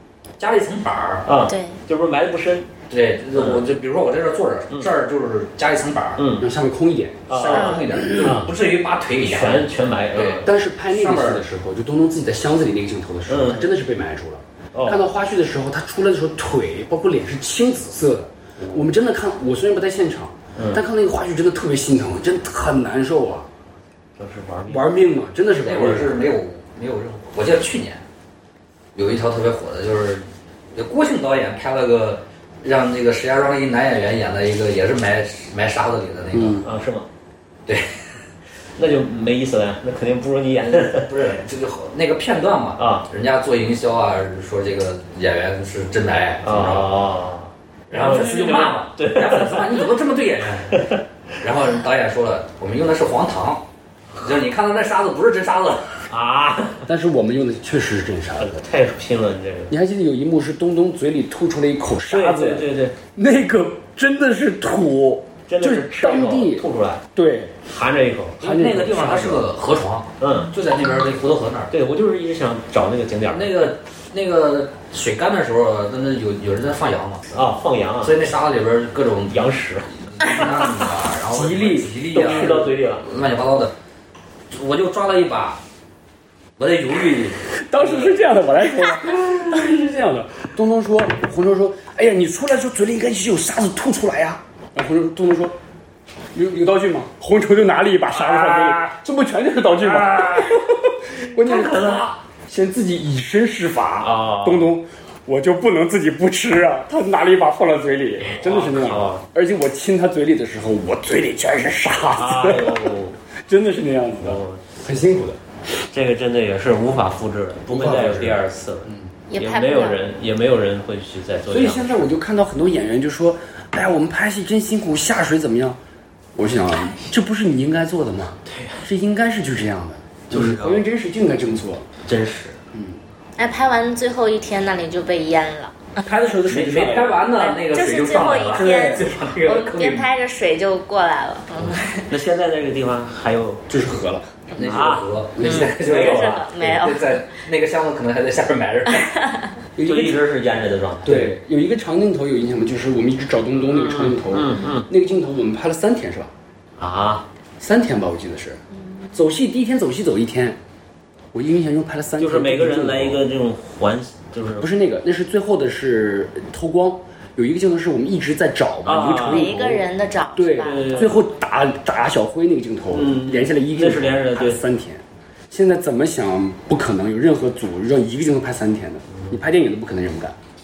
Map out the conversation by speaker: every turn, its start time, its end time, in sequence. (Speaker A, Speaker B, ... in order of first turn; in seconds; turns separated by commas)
Speaker A: 0.4-1.2, Speaker B: 1.2-2.7, Speaker C: 1.4-1.8, Speaker A: 2.9-6.2, Speaker B: 3.3-3.6, Speaker B: 6.2-6.5, Speaker D: 6.4-8.4, Speaker B: 7.3-8.5, Speaker A: 7.3-11.4, Speaker B: 9.2-10.5, Speaker D: 10.4-23.5, Speaker B: 13.3-13.7, Speaker B: 14.7-15.0, Speaker B: 18.6-18.9, Speaker B: 20.6-20.8, Speaker B: 24.2-24.9, Speaker D: 24.7-26.2, Speaker A: 25.6-28.0, Speaker A: 28.9-36.6, Speaker D: 36.3-36.6, Speaker B: 36.6-37.1, Speaker A: 37.7-38.2, Speaker B: 38.8-41.1, Speaker A: 40.6-46.9, Speaker B: 42.8-43.1, Speaker B: 46.4-49.8, Speaker A: 47.9-53.6, Speaker A: 54.1-56.0, Speaker B: 56.1-56.8, Speaker D: 56.9-58.6, Speaker B: 58.4-59.7, Speaker D: 59.7-67.6, Speaker B: 62.1-63.0, Speaker B: 65.5-67.0, Speaker B: 67.7-68.6, Speaker D: 68.4-69.4, Speaker A: 68.4-71.7, Speaker B: 70.2-70.5, Speaker B: 71.7-73.6, Speaker A: 73.3-77.3, Speaker B: 77.3-78.2, Speaker A: 78.0-83.7, Speaker B: 79.3-80.5, Speaker D: 81.3-82.7, Speaker B: 82.1-83.1, Speaker A: 84.5-85.6, Speaker A: 86.6-87.4, Speaker D: 87.5-95.6, Speaker B: 87.8-88.1, Speaker D: 96.3-112.9, Speaker B: 98.1-98.9, Speaker B: 99.8-102.2, Speaker B: 104.0-104.7, Speaker B: 108.2-109.2, Speaker B: 112.1-113.2, Speaker D: 113.5-115.4, Speaker B: 114.2-114.7, Speaker B: 115.9-122.1, Speaker D: 117.7-119.1, Speaker C: 119.3-120.0, Speaker D: 121.5-125.8, Speaker D: 126.3-131.9, Speaker B: 128.4-128.9, Speaker B: 130.3-130.8, Speaker B: 132.0-132.6, Speaker D: 132.7-133.0, Speaker C: 133.3-136.0, Speaker D: 136.0-137.3, Speaker A: 136.5-140.1, Speaker C: 137.3-142.1, Speaker D: 138.5-139.1, Speaker B: 141.6-143.7, Speaker D: 143.7-144.4, Speaker A: 144.5-149.1, Speaker B: 144.6-146.8, Speaker D: 145.3-145.8, Speaker C: 145.4-147.3, Speaker C: 148.9-149.5, Speaker D: 149.8-150.2, Speaker B: 149.8-151.3, Speaker D: 151.0-156.3, Speaker B: 153.7-154.9, Speaker B: 156.8-157.2, Speaker D: 157.6-158.6, Speaker D: 159.1-160.6, Speaker D: 161.3-163.2, Speaker B: 162.2-164.7, Speaker D: 164.6-180.3, Speaker B: 168.8-169.5, Speaker C: 169.1-171.3, Speaker B: 170.6-171.2, Speaker B: 172.9-174.6, Speaker B: 179.1-179.4